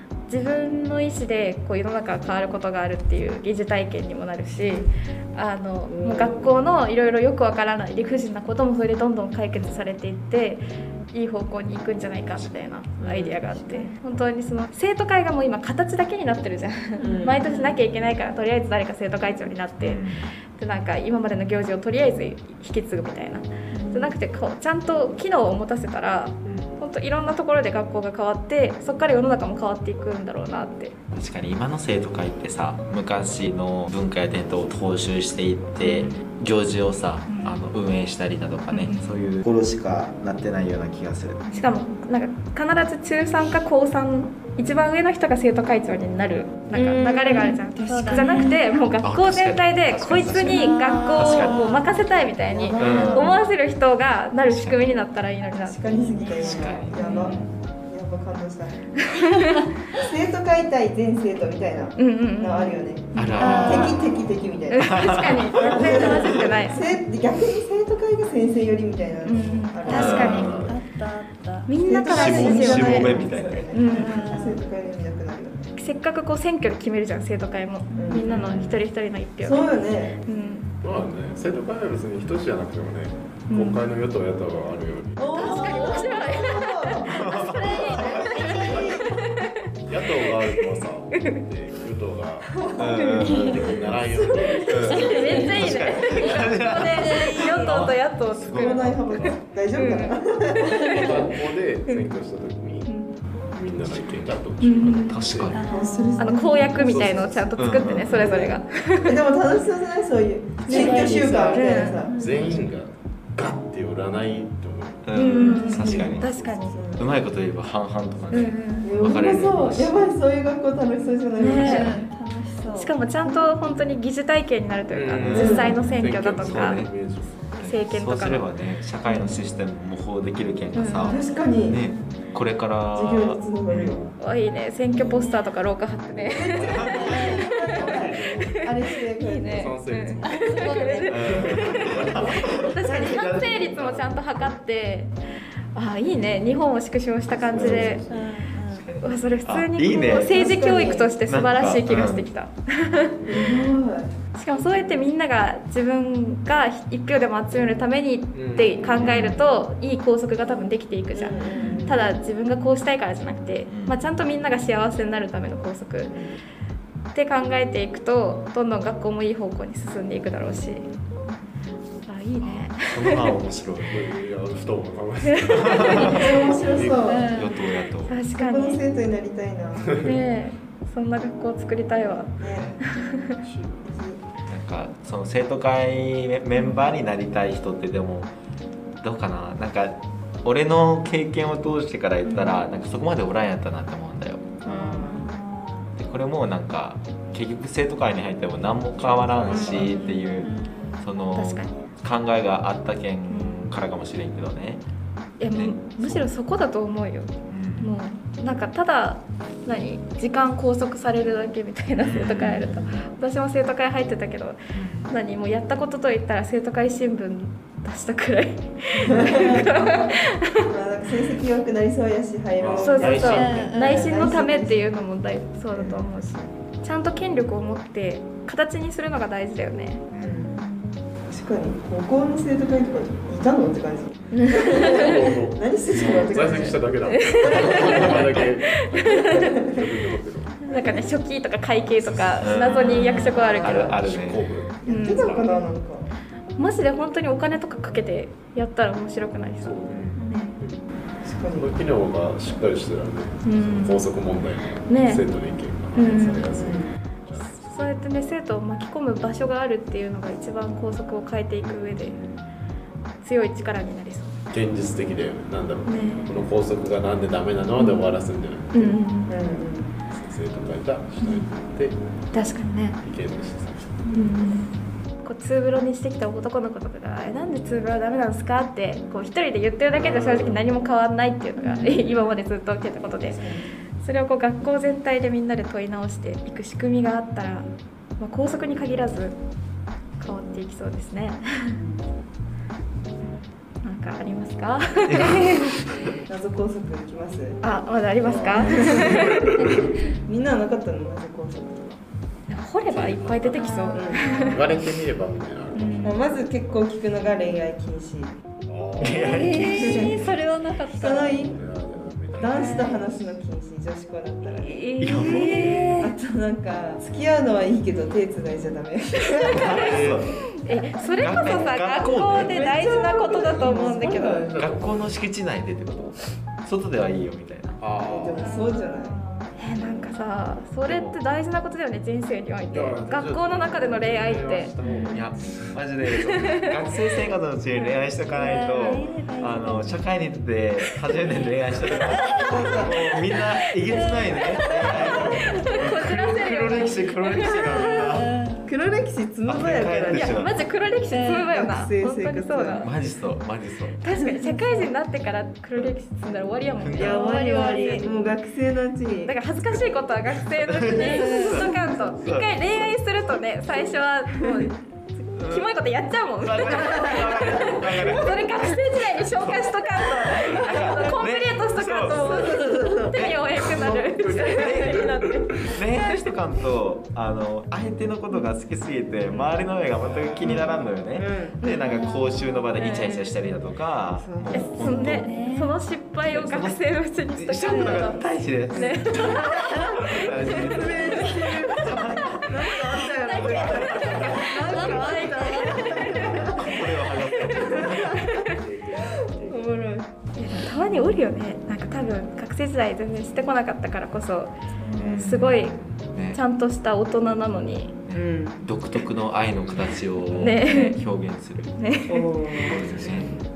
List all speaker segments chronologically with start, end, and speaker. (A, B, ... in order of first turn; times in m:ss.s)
0:00.3-0:30.9 A
0:05.9-0:06.6 B
0:13.0-0:13.4 B
0:13.4-0:14.0 C
0:17.0-0:17.4 B
0:17.1-0:17.8 C
0:19.8-0:20.3 D
0:23.7-0:24.2 C
0:26.4-0:26.8 D
0:31.1-0:41.5 D
0:35.8-0:36.2 A
0:37.3-0:37.6 A
0:38.7-0:39.0 A
0:41.5-0:42.0 C
0:41.5-0:55.8 A
0:46.6-0:47.1 D
0:47.0-0:48.5 B
0:47.3-0:48.9 C
0:49.0-0:51.8 D
0:50.3-0:51.9 C
0:52.3-0:53.5 B
0:52.8-0:53.4 D
0:54.4-0:54.8 D
0:55.5-0:59.1 B
0:55.9-0:57.5 C
0:56.4-0:57.5 D
0:59.2-0:59.6 A
0:59.9-1:10.8 B
1:02.0-1:03.9 A
1:03.2-1:04.0 D
1:03.4-1:04.0 C
1:04.7-1:06.8 A
1:04.8-1:06.4 D
1:05.7-1:06.0 E
1:05.9-1:06.9 C
1:09.2-1:10.6 A
1:09.8-1:11.8 C
1:09.9-1:10.7 D
1:10.3-1:10.6 E
1:11.7-1:14.2 A
1:11.8-1:15.7 B
1:12.0-1:13.7 D
1:13.8-1:14.6 C
1:15.8-1:19.7 A
1:17.9-1:18.2 C
1:17.9-1:18.5 B
1:18.3-1:18.8 D
1:19.4-1:20.2 B
1:20.2-1:20.7 A
1:20.8-1:25.3 E
1:23.5-1:23.8 A
1:25.2-1:29.0 B
1:25.3-1:29.5 A
1:25.4-1:26.2 C
1:27.1-1:28.8 D
1:27.2-1:29.1 C
1:29.9-1:32.5 E
1:30.5-1:31.4 A
1:32.5-1:35.5 B
1:32.8-1:34.0 D
1:33.2-1:33.7 C
1:33.3-1:34.9 E
1:34.6-1:37.9 C
1:34.7-1:38.9 D
1:34.7-1:40.2 A
1:38.5-1:41.3 B
1:40.6-1:41.1 C
1:40.9-1:43.0 E
1:43.5-1:45.6 E
1:44.6-1:45.3 A
1:45.0-1:45.6 D
1:45.5-1:46.8 C
1:45.7-1:47.5 B
1:46.2-1:49.2 A
1:46.8-1:47.5 E
1:47.6-1:48.4 D
1:48.0-1:52.2 B
1:50.6-1:52.1 A
1:50.6-1:52.5 C
1:52.2-1:56.9 E
1:55.0-1:56.2 D
1:55.1-1:56.8 A
1:55.4-1:57.2 B
1:57.0-2:00.0 D
1:58.3-1:58.9 A
1:58.8-2:02.0 B
2:01.4-2:01.9 A
2:01.6-2:02.0 D
2:01.6-2:02.9 C
2:02.7-2:06.9 A
2:03.2-2:03.5 B
2:04.9-2:07.5 E
2:05.2-2:05.8 D
2:05.4-2:05.7 B
2:06.3-2:14.0 D
2:07.5-2:08.5 A
2:09.0-2:09.4 A
2:10.7-2:11.3 A
2:11.1-2:11.8 B
2:11.7-2:12.2 C
2:12.9-2:14.0 B
2:14.2-2:25.1 A
2:15.0-2:15.6 C
2:16.2-2:19.8 B
2:16.5-2:16.8 E
2:16.8-2:17.7 C
2:17.6-2:18.9 E
2:19.4-2:20.6 E
2:20.2-2:21.3 C
2:21.1-2:24.5 D
2:21.2-2:22.8 E
2:25.8-2:28.1 A
2:27.2-2:28.3 E
2:27.6-2:28.9 C
2:28.8-2:30.5 D
2:29.0-2:33.7 A
2:30.1-2:31.1 B
2:31.2-2:32.2 D
2:33.2-2:33.5 E
2:33.3-2:34.2 B
2:34.4-2:46.2 A
2:34.6-2:35.0 E
2:38.3-2:39.1 E
2:39.0-2:39.4 D
2:41.1-2:42.0 B
2:41.5-2:41.9 C
2:41.6-2:41.9 D
2:43.7-2:44.0 D
2:47.1-2:50.9 A
2:52.0-2:53.4 A
2:52.4-2:54.0 D
2:53.9-2:57.0 E
2:55.2-2:56.3 A
2:55.6-2:56.3 D
2:55.9-2:57.3 B
2:56.8-2:57.9 C
2:57.3-2:58.2 D
2:58.1-2:58.8 A
2:58.3-3:00.0 B
3:00.0-3:03.4 A
3:02.4-3:02.8 B
3:03.4-3:04.0 E
3:03.9-3:04.2 B
3:04.5-3:08.3 D
3:09.0-3:14.5 D
3:12.2-3:12.6 A
3:14.6-3:15.3 B
3:14.6-3:15.1 A
3:14.7-3:15.9 C
3:16.0-3:24.8 D
3:19.0-3:20.0 E
3:19.4-3:20.3 A
3:19.9-3:21.3 C
3:21.3-3:21.8 A
3:23.3-3:23.7 A
3:25.4-3:40.6 A
3:25.5-3:26.3 D
3:27.5-3:27.9 D
3:32.0-3:33.0 D
3:34.7-3:35.1 D
3:39.0-3:44.9 B
3:42.6-3:43.8 E
3:42.8-3:50.1 A
3:43.2-3:44.2 C
3:45.7-3:46.5 B
3:50.1-3:50.4 D
3:50.2-3:50.6 B
3:50.4-3:51.1 C
3:51.2-3:58.4 B
3:54.3-3:55.3 A
3:54.6-4:00.8 E
3:57.1-3:59.5 A
3:57.8-3:58.1 D
3:59.1-4:00.0 B
4:00.6-4:04.0 A
4:00.7-4:01.0 B
4:02.0-4:05.5 E
4:02.4-4:04.5 D
4:03.6-4:03.9 B
4:04.8-4:06.1 B
4:04.9-4:05.4 A
4:06.6-4:10.6 A
4:09.6-4:10.9 E
4:09.9-4:10.2 D
4:10.2-4:10.6 C
4:11.2-4:11.8 B
4:11.4-4:18.0 E
4:13.4-4:14.1 A
4:14.9-4:15.2 A
4:15.9-4:16.8 A
4:16.5-4:16.9 B
4:17.4-4:22.2 A
4:21.6-4:22.4 E
4:23.2-4:24.4 A
4:24.5-4:28.9 E
4:25.9-4:26.3 A
4:27.8-4:28.0 A
4:28.7-4:29.4 A
4:29.3-4:29.9 B
4:30.1-4:32.0 E
4:31.2-4:31.5 A
4:32.3-4:33.0 A
4:33.0-4:34.2 E
4:34.0-4:34.5 C
4:34.1-4:34.7 A
4:35.2-4:43.4 A
4:39.9-4:40.7 E
4:41.6-4:41.9 C
4:41.8-4:42.0 B
4:43.2-4:43.7 B
4:44.0-4:47.7 A
4:48.2-4:49.4 A
4:50.2-4:51.7 A
4:51.7-4:52.1 B
4:53.8-4:55.8 A
4:55.0-4:56.1 D
4:56.3-4:57.6 B
4:57.6-4:59.9 A
4:58.2-4:59.9 E
4:58.6-5:02.0 B
5:02.5-5:04.7 A
5:02.9-5:03.7 E
5:03.5-5:04.6 C
5:03.9-5:04.3 B
5:04.4-5:06.4 E
5:05.8-5:06.1 A
5:06.0-5:08.4 B
5:08.6-5:09.7 E
5:09.0-5:11.5 C
5:09.0-5:10.2 D
5:09.6-5:10.4 B
5:10.9-5:11.5 B
5:11.4-5:12.9 E
5:12.4-5:15.0 B
5:12.4-5:13.1 C
5:14.5-5:15.7 A
5:15.0-5:15.9 D
5:15.0-5:16.2 C
5:16.0-5:20.0 B
5:19.5-5:20.4 D
5:19.5-5:24.5 A
5:19.7-5:20.2 E
5:20.9-5:21.9 B
5:21.2-5:22.7 D
5:22.4-5:24.6 B
5:23.8-5:25.2 E
5:24.6-5:27.8 D
5:27.8-5:28.5 E
5:28.0-5:29.2 B
5:28.4-5:29.5 C
5:29.6-5:34.8 A
5:30.9-5:31.2 D
5:32.7-5:35.8 E
5:34.9-5:35.2 C
5:35.1-5:48.4 D
5:36.2-5:36.6 A
5:37.8-5:40.0 C
5:42.0-5:42.8 C
5:42.3-5:42.9 A
5:42.5-5:42.9 B
5:43.9-5:45.4 C
5:44.9-5:47.7 A
5:47.5-5:48.7 C
5:48.6-5:50.4 B
5:49.4-5:50.6 D
5:50.1-5:52.9 A
5:51.1-5:51.6 C
5:51.4-5:52.9 B
5:52.8-5:54.0 D
5:54.0-5:57.4 A
5:54.1-5:54.5 B
5:54.6-5:54.9 C
5:56.8-5:57.2 D
5:56.9-5:59.4 B
5:57.1-5:58.1 C
5:59.1-6:16.3 A
6:00.7-6:03.0 D
6:01.0-6:02.1 C
6:05.4-6:05.7 D
6:06.4-6:13.5 D
6:12.1-6:14.0 B
6:13.6-6:15.8 E
6:14.5-6:15.0 D
6:15.7-6:25.3 D
6:20.0-6:20.5 E
6:20.4-6:21.6 B
6:21.6-6:22.8 C
6:22.8-6:23.2 A
6:22.9-6:23.4 B
6:24.1-6:24.8 B
6:24.5-6:29.7 A
6:24.6-6:25.7 C
6:26.3-6:32.5 D
6:27.7-6:28.0 C
6:28.7-6:40.1 B
6:30.5-6:31.5 A
6:32.9-6:38.6 A
6:33.4-6:34.4 D
6:33.6-6:34.3 E
6:34.5-6:36.5 C
6:36.2-6:38.4 D
6:38.4-6:39.8 E
6:40.4-6:44.5 A
6:44.8-6:45.4 C
6:44.9-6:46.4 D
6:45.1-6:45.8 A
6:46.3-6:48.0 A
6:48.0-6:51.8 D
6:48.1-6:48.6 B
6:49.8-6:51.0 A
6:51.8-6:52.8 A
6:52.1-6:53.4 B
6:52.6-6:53.4 D
6:52.9-6:53.2 E